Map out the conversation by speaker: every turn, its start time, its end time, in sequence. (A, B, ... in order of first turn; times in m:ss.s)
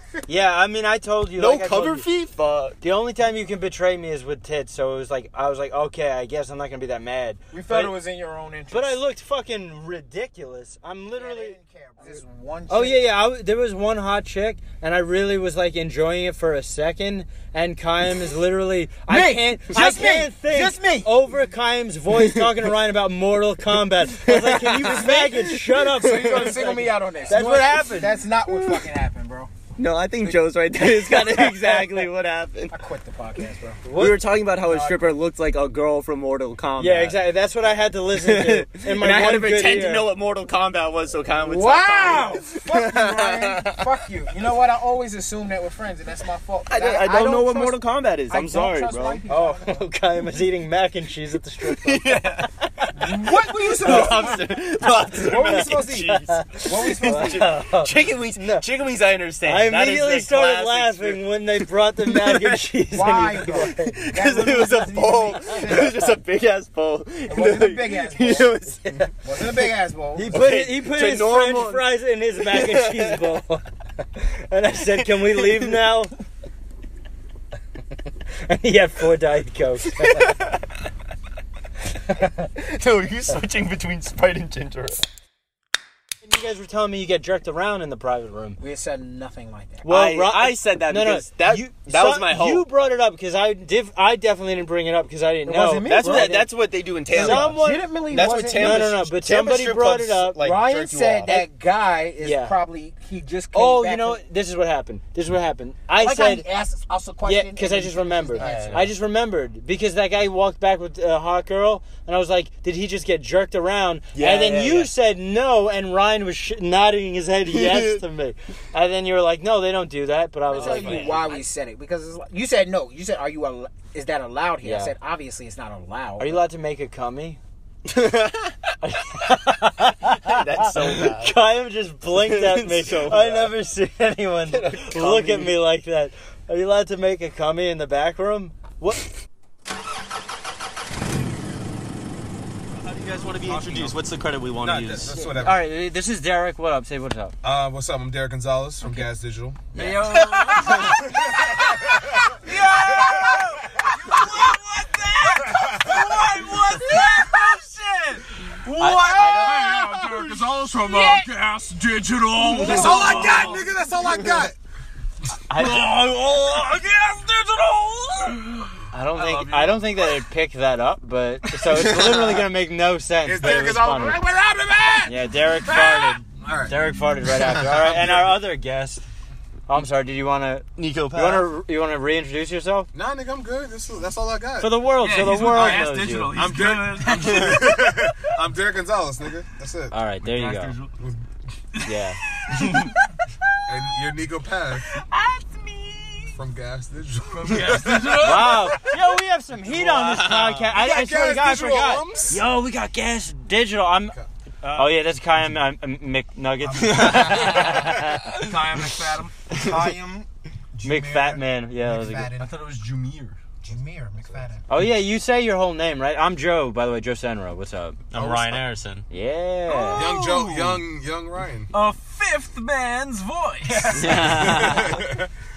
0:00.3-0:02.0 A
0:01.4-0:02.8 B
0:02.8-0:07.9 A
0:07.5-0:09.0 C
0:08.7-0:28.2 A
0:11.2-0:13.0 C
0:19.1-0:21.1 C
0:24.3-0:25.1 B
0:24.8-0:29.5 C
0:28.5-0:28.8 B
0:29.8-0:32.8 B
0:30.9-0:31.9 C
0:32.7-0:33.8 C
0:33.8-0:34.2 A
0:33.9-0:37.2 B
0:34.6-0:35.0 C
0:36.8-0:40.1 A
0:38.2-0:43.8 B
0:41.3-0:49.8 C
0:46.7-0:49.2 B
0:49.3-0:52.2 A
0:51.7-1:01.2 B
0:53.0-0:54.4 C
0:53.8-0:54.4 A
0:55.1-0:57.5 C
0:55.3-0:55.7 A
0:56.3-0:58.6 A
0:59.4-1:03.7 A
1:02.0-1:02.6 B
1:02.9-1:06.2 C
1:03.9-1:09.7 B
1:07.3-1:08.6 C
1:09.2-1:10.4 C
1:10.1-1:13.6 A
1:10.3-1:11.9 B
1:12.4-1:13.4 B
1:14.2-1:16.1 A
1:15.0-1:15.8 B
1:18.3-1:20.3 A
1:20.0-1:20.6 B
1:22.4-1:25.0 B
1:26.2-1:28.6 A
1:28.6-1:29.8 C
1:29.8-1:36.5 A
1:29.8-1:32.6 B
1:35.4-1:36.5 C
1:35.8-1:41.3 B
1:37.1-1:39.0 C
1:37.1-1:37.9 A
1:38.5-1:40.6 A
1:40.4-1:44.2 C
1:42.2-1:42.5 A
1:43.5-1:46.4 A
1:46.0-1:48.8 C
1:47.2-2:01.4 A
1:48.4-1:48.9 B
1:54.1-1:54.9 B
1:57.5-1:58.0 B
2:00.5-2:06.3 C
2:00.5-2:01.4 B
2:04.6-2:04.9 A
2:06.2-2:07.4 A
2:07.9-2:08.5 B
2:08.8-2:19.1 A
2:10.2-2:11.4 B
2:12.2-2:13.5 B
2:14.5-2:15.5 B
2:22.7-2:25.2 B
2:24.6-2:25.6 D
2:25.2-2:27.3 A
2:27.4-2:29.6 D
2:29.7-2:30.2 A
2:29.7-2:31.2 E
2:31.2-2:32.3 D
2:32.4-2:33.9 A
2:32.6-2:33.1 E
2:32.8-2:33.4 D
2:33.8-2:43.7 E
2:35.5-2:36.0 D
2:38.8-2:39.8 A
2:42.5-2:44.6 D
2:42.7-2:43.0 A
2:45.5-2:46.0 A
2:45.5-2:50.0 E
2:48.9-2:54.2 A
2:53.2-2:58.4 D
2:55.0-2:59.0 A
2:59.7-3:02.9 A
3:00.8-3:01.5 B
3:02.9-3:04.8 D
3:04.6-3:06.3 A
3:05.0-3:07.3 E
3:05.4-3:09.9 D
3:05.5-3:06.5 B
3:07.1-3:07.8 B
3:09.9-3:10.8 A
3:10.2-3:10.9 E
3:11.8-3:12.9 E
3:11.8-3:12.9 A
3:13.6-3:15.0 D
3:14.9-3:16.4 E
3:16.3-3:18.7 D
3:17.4-3:18.8 E
3:18.2-3:28.3 A
3:19.7-3:20.7 B
3:20.7-3:22.4 D
3:26.8-3:27.8 B
3:26.9-3:27.5 C
3:28.4-3:29.3 E
3:29.5-3:32.5 C
3:30.8-3:32.3 A
3:32.4-3:33.4 B
3:33.6-3:34.6 C
3:34.7-3:38.0 A
3:38.1-3:39.0 B
3:38.1-3:38.6 D
3:39.1-3:40.1 A
3:39.7-3:40.8 E
3:39.9-3:41.7 D
3:41.7-3:44.2 E
3:43.9-3:44.9 B
3:44.1-3:44.8 A
3:44.2-3:45.3 D